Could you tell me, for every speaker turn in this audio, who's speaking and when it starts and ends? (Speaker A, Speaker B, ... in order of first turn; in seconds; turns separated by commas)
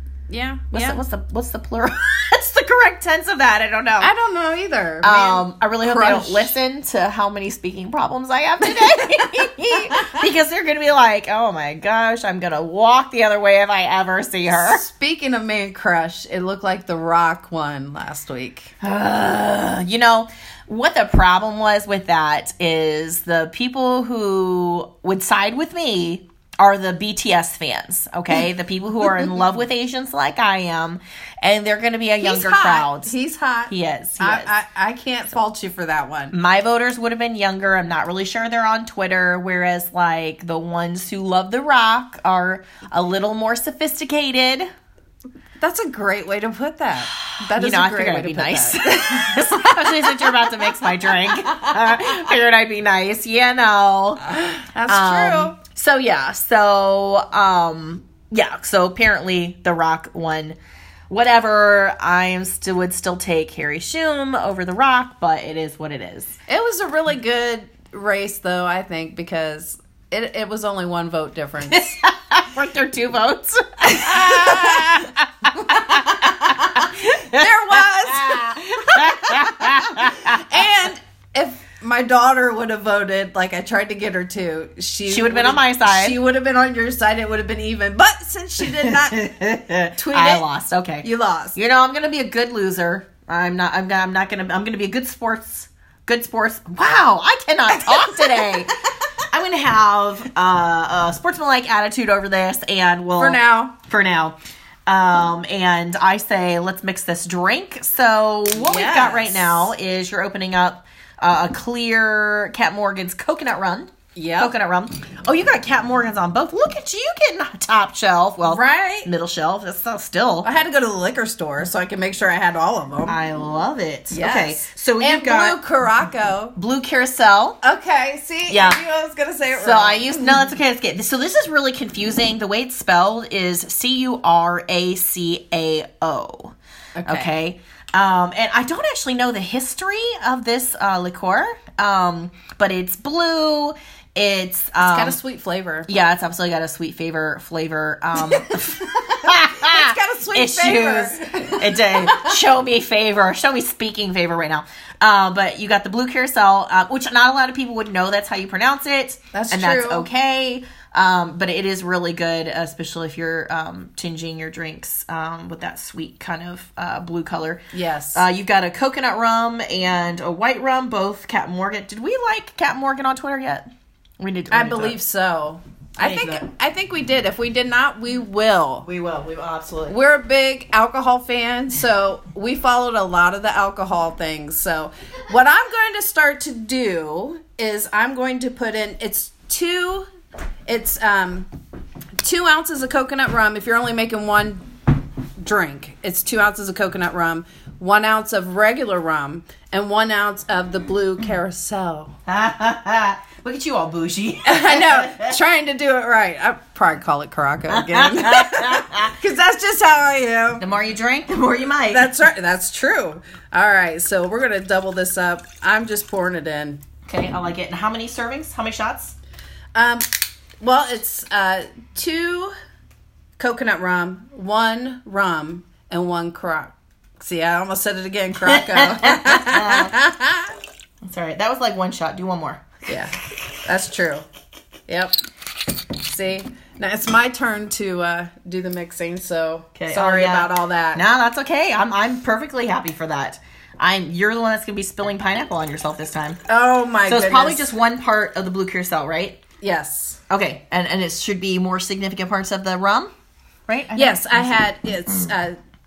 Speaker A: 0.3-1.0, Speaker B: 0.7-4.1, Speaker A: 4.0-6.5, Speaker B: 5.0-14.8, Speaker A: 14.5-18.7, Speaker B: 18.8-33.1, Speaker A: 32.2-36.3, Speaker B: 33.7-34.5, Speaker B: 36.3-44.7, Speaker A: 45.6-50.7, Speaker B: 47.2-60.6, Speaker A: 54.3-55.5, Speaker B: 61.1-66.4, Speaker A: 66.5-71.8, Speaker B: 71.7-80.5, Speaker A: 73.8-75.1, Speaker A: 75.8-89.3, Speaker B: 85.1-86.2, Speaker B: 88.8-104.3, Speaker A: 89.9-90.4, Speaker A: 91.0-91.6, Speaker A: 97.8-98.7, Speaker A: 103.2-103.8, Speaker B: 104.9-120.5, Speaker A: 108.6-109.6, Speaker A: 114.2-114.5, Speaker A: 118.5-119.1, Speaker A: 120.4-123.2, Speaker B: 123.1-125.6, Speaker A: 124.1-126.5, Speaker B: 126.5-127.6, Speaker A: 127.6-130.5, Speaker B: 128.5-128.8, Speaker B: 129.5-136.5, Speaker A: 137.0-137.3, Speaker B: 137.1-145.2, Speaker A: 144.8-145.9, Speaker B: 145.8-167.6, Speaker A: 148.2-152.4, Speaker A: 159.3-160.1, Speaker A: 167.7-168.2, Speaker B: 168.1-175.0, Speaker A: 174.5-178.8, Speaker B: 176.0-176.4, Speaker B: 178.8-180.0, Speaker A: 179.9-190.1, Speaker A: 190.7-191.5, Speaker A: 192.2-194.6, Speaker A: 195.4-202.1, Speaker B: 202.2-205.3, Speaker A: 204.4-210.6, Speaker B: 207.7-209.1, Speaker B: 210.6-212.1, Speaker A: 211.9-216.8, Speaker B: 217.1-219.2, Speaker A: 219.7-220.1, Speaker A: 220.6-222.5, Speaker A: 223.4-230.5, Speaker B: 228.4-229.9, Speaker B: 231.0-232.8, Speaker A: 232.8-233.1, Speaker A: 233.6-234.2, Speaker A: 234.9-235.1, Speaker A: 235.9-241.0, Speaker B: 239.7-246.4, Speaker A: 246.5-247.7, Speaker B: 247.1-249.4, Speaker A: 249.6-250.2, Speaker B: 250.3-253.1, Speaker B: 253.7-255.1, Speaker A: 254.0-255.6